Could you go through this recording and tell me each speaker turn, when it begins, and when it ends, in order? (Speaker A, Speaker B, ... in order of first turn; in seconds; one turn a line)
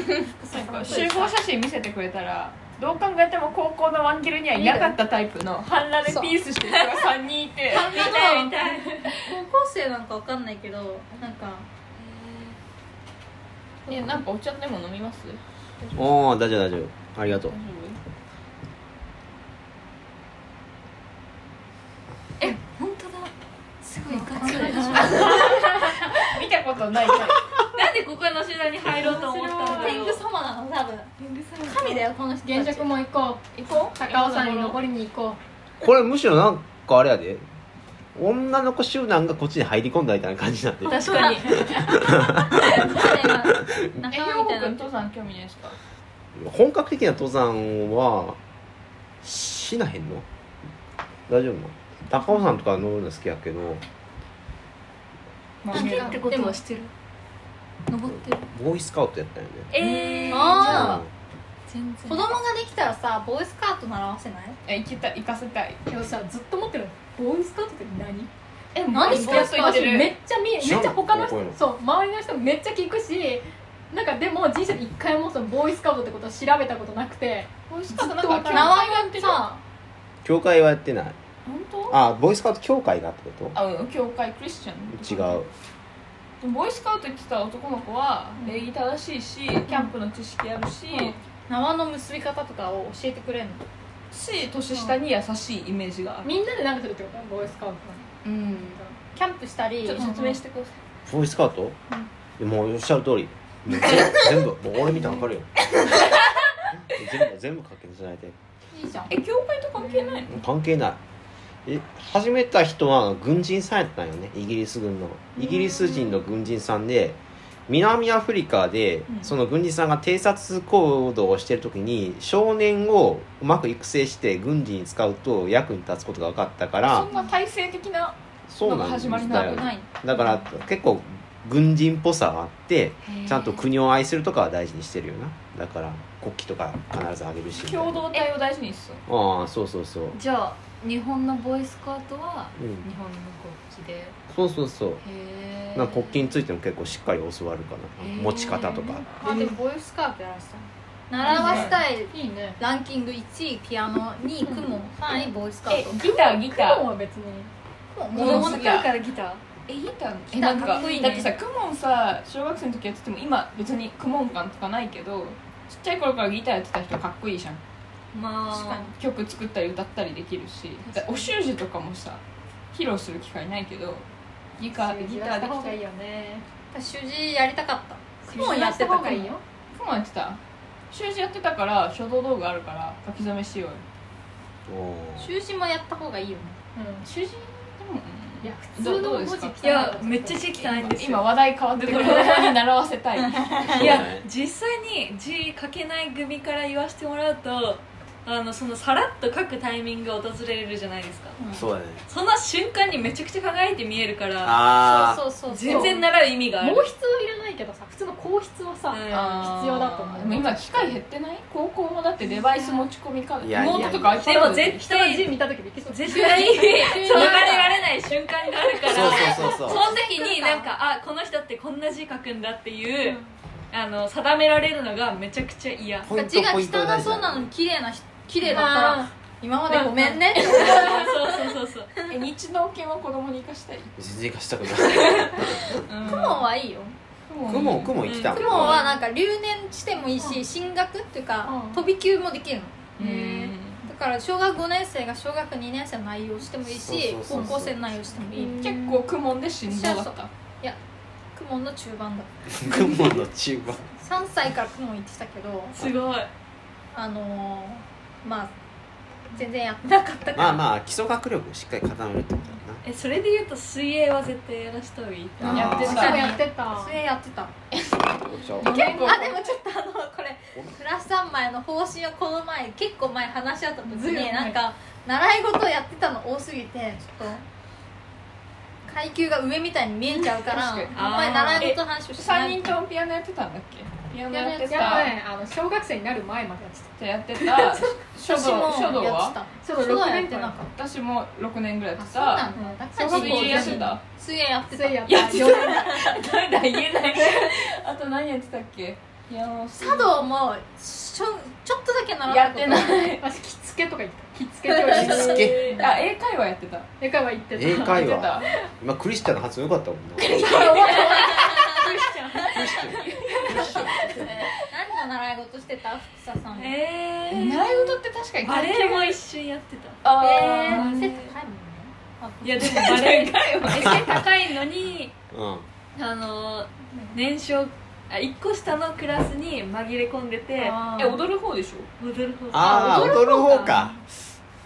Speaker A: 0.3-1.3
Speaker B: 0.5-8.3
Speaker A: 4.5-5.0
Speaker A: 6.0-6.3
Speaker A: 7.7-11.7
Speaker C: 7.8-9.0
Speaker C: 12.0-12.5
Speaker A: 13.9-14.1
Speaker B: 13.9-16.0
Speaker D: 15.9-17.5
Speaker B: 17.3-18.0
Speaker C: 22.4-25.9
Speaker A: 24.1-25.7
Speaker E: 24.2-25.6
Speaker B: 25.0-25.6
Speaker B: 26.1-27.4
Speaker C: 27.6-30.2
Speaker A: 28.9-32.9
Speaker E: 29.0-30.0
Speaker C: 31.2-32.0
Speaker E: 32.5-33.4
Speaker B: 33.5-34.8
Speaker E: 33.9-35.4
Speaker D: 35.8-37.4
Speaker D: 38.1-43.7
Speaker A: 40.9-44.9
Speaker C: 40.9-42.0
Speaker B: 44.1-45.8
Speaker D: 46.3-48.4
Speaker D: 49.2-50.2
Speaker D: 51.3-53.8
Speaker B: 55.6-56.3
Speaker C: 55.7-56.9
Speaker E: 55.7-56.5
Speaker A: 55.7-56.5
Speaker C: 57.9-58.5
Speaker D: 58.0-59.7
Speaker B: 59.7-60.9
Speaker C: 59.7-61.0
Speaker A: 60.3-61.0
Speaker D: 60.6-61.1
Speaker C: 61.7-62.4
Speaker A: 62.0-64.6
Speaker B: 64.7-65.8
Speaker E: 65.9-68.3
Speaker B: 68.7-70.2
Speaker E: 68.9-78.8
Speaker A: 68.9-70.0
Speaker D: 70.6-71.6
Speaker B: 77.7-79.4
Speaker A: 78.5-79.6
Speaker D: 80.2-81.2
Speaker B: 81.5-82.0
Speaker D: 81.9-83.5
Speaker B: 83.5-85.4
Speaker D: 84.9-85.5
Speaker B: 86.4-91.2
Speaker E: 88.4-88.7
Speaker A: 91.5-93.6
Speaker B: 94.1-96.3
Speaker E: 96.2-98.1
Speaker B: 98.3-98.7
Speaker E: 98.7-99.0
Speaker A: 99.1-100.1
Speaker B: 99.8-100.8
Speaker E: 100.0-100.3
Speaker D: 101.1-101.8
Speaker D: 102.4-105.6
Speaker D: 106.7-108.3
Speaker A: 108.7-109.1
Speaker B: 109.1-110.3
Speaker D: 110.3-111.0
Speaker D: 111.7-127.1
Speaker B: 126.8-129.7
Speaker D: 128.5-138.0
Speaker A: 129.2-129.9
Speaker C: 133.0-133.7
Speaker B: 137.6-139.0
Speaker D: 139.1-140.2
Speaker C: 140.1-144.2
Speaker D: 142.6-142.8
Speaker D: 144.3-145.0
Speaker C: 145.0-146.2
Speaker D: 145.7-149.0
Speaker C: 148.0-149.0
Speaker A: 149.1-155.9
Speaker E: 149.2-149.6
Speaker E: 151.2-152.6
Speaker B: 151.3-151.7
Speaker B: 155.7-156.9
Speaker E: 155.8-157.5
Speaker A: 157.9-158.8
Speaker B: 158.1-158.9
Speaker C: 158.1-159.4
Speaker B: 159.7-167.6
Speaker A: 160.3-161.3
Speaker C: 160.6-161.2
Speaker C: 168.1-168.9
Speaker A: 168.5-168.9
Speaker B: 168.9-174.1
Speaker B: 174.6-175.8
Speaker E: 174.7-176.4
Speaker A: 176.7-179.3
Speaker E: 178.3-179.4
Speaker B: 179.7-180.4
Speaker B: 180.9-183.8
Speaker D: 184.7-185.3
Speaker A: 185.2-186.6
Speaker E: 186.8-187.1
Speaker B: 187.0-189.6
Speaker E: 188.4-190.7
Speaker C: 189.6-192.6
Speaker B: 190.7-193.7
Speaker A: 193.5-193.9
Speaker D: 193.6-194.2
Speaker C: 193.7-201.4
Speaker A: 201.4-201.6
Speaker D: 201.5-202.0
Speaker C: 202.1-204.7
Speaker D: 204.4-205.2
Speaker A: 204.8-206.0
Speaker C: 205.5-206.9
Speaker E: 205.6-211.0
Speaker C: 208.9-209.5
Speaker B: 209.1-214.8
Speaker C: 212.5-212.8
Speaker D: 213.4-214.2
Speaker C: 213.5-226.1
Speaker E: 213.8-214.1
Speaker E: 214.7-217.7
Speaker A: 216.1-217.7
Speaker D: 218.9-219.9
Speaker A: 219.0-220.7
Speaker D: 226.0-227.5
Speaker A: 226.1-231.5
Speaker E: 228.4-229.1
Speaker C: 230.3-232.1
Speaker B: 232.1-233.9
Speaker D: 234.0-235.7
Speaker B: 235.9-236.4
Speaker A: 236.0-236.9
Speaker B: 237.3-238.0
Speaker D: 237.4-238.8
Speaker C: 238.0-238.9
Speaker A: 238.3-248.9
Speaker E: 241.4-241.8
Speaker B: 243.0-243.8
Speaker D: 246.7-247.9
Speaker E: 248.3-249.0
Speaker B: 248.4-250.3
Speaker A: 249.7-250.8
Speaker A: 251.3-253.1
Speaker D: 252.5-253.9
Speaker A: 253.9-255.8
Speaker C: 255.7-256.3
Speaker A: 256.9-258.5
Speaker A: 259.3-260.6
Speaker D: 260.4-262.8
Speaker C: 262.8-266.4
Speaker D: 265.4-266.2
Speaker E: 265.4-267.0
Speaker A: 265.4-267.5
Speaker B: 265.5-266.2
Speaker B: 267.7-269.4
Speaker D: 268.2-268.7
Speaker E: 268.6-269.5
Speaker A: 268.6-277.4
Speaker E: 273.8-274.6
Speaker A: 278.8-282.8
Speaker B: 280.2-285.1
Speaker C: 280.9-281.7
Speaker A: 284.3-285.1
Speaker E: 284.7-287.9
Speaker B: 287.0-289.4
Speaker A: 288.2-290.7
Speaker E: 289.7-290.6
Speaker B: 289.9-294.0
Speaker A: 292.0-295.7
Speaker E: 292.5-294.0
Speaker E: 294.7-296.2
Speaker B: 295.1-300.2
Speaker A: 299.8-303.2
Speaker B: 302.3-303.2
Speaker E: 303.2-306.0
Speaker B: 304.9-306.9
Speaker D: 304.9-305.6
Speaker C: 304.9-305.9
Speaker E: 307.0-308.5
Speaker D: 307.6-310.5
Speaker B: 307.6-308.5
Speaker B: 310.2-311.3
Speaker E: 310.2-312.6
Speaker C: 310.7-312.8
Speaker A: 311.1-311.9
Speaker D: 312.5-314.4
Speaker B: 312.5-314.5
Speaker C: 313.6-314.5
Speaker A: 314.6-316.8
Speaker C: 316.5-321.3
Speaker B: 317.3-319.2
Speaker B: 320.0-321.2
Speaker A: 320.1-322.9
Speaker C: 322.4-325.1
Speaker B: 322.6-324.3
Speaker D: 323.8-324.2
Speaker D: 325.3-325.7
Speaker C: 325.9-331.1
Speaker A: 330.6-331.2
Speaker B: 330.9-331.9
Speaker C: 332.0-333.8
Speaker D: 332.5-334.0
Speaker A: 332.5-334.0